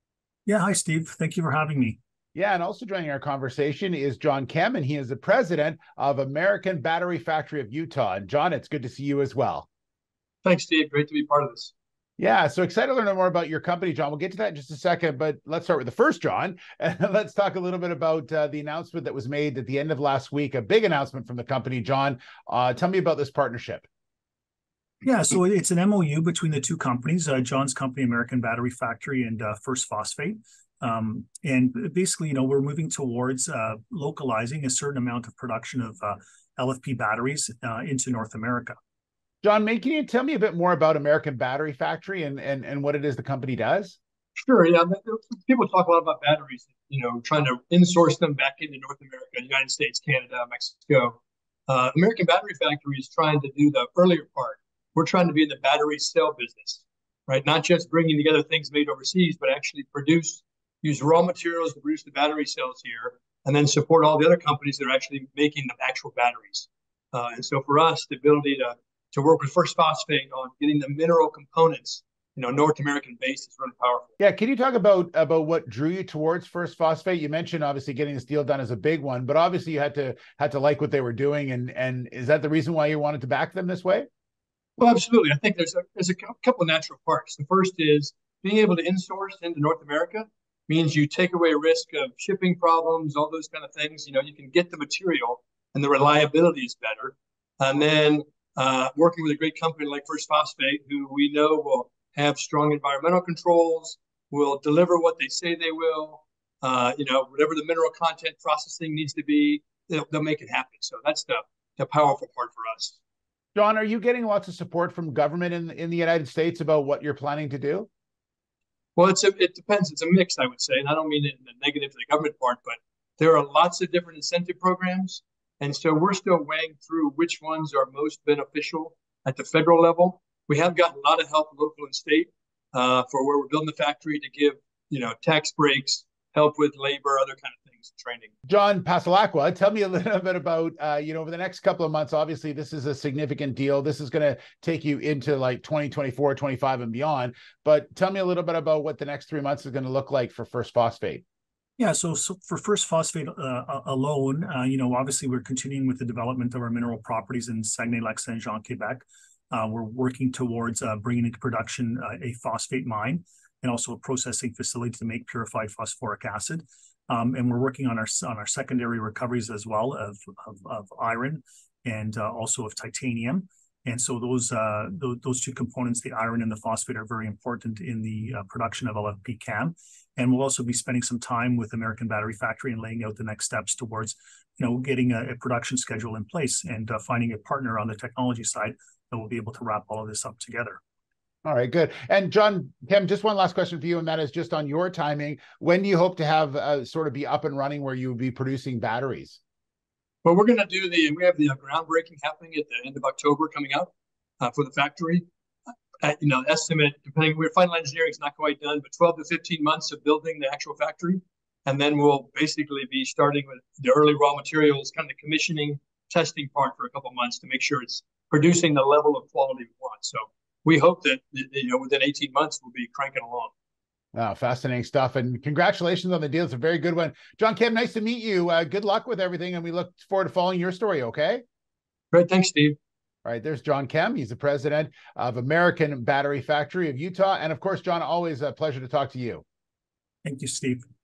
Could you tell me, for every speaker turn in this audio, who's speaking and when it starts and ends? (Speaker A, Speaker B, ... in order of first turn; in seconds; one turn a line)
Speaker A: 0.5-2.0
Speaker B: 2.3-9.7
Speaker C: 10.4-11.7
Speaker B: 12.2-23.9
Speaker A: 25.0-38.8
Speaker B: 39.4-44.0
Speaker C: 44.4-74.1
Speaker B: 74.2-84.1
Speaker C: 84.8-113.0
Speaker B: 113.5-117.9
Speaker C: 119.0-138.3
Speaker B: 138.5-151.2
Speaker A: 151.8-190.8
Speaker B: 191.4-199.4
Speaker C: 200.2-205.2
Speaker C: 206.0-223.5
Speaker B: 224.1-231.4
Speaker C: 232.1-232.8
Speaker B: 233.2-239.4
Speaker A: 240.2-240.8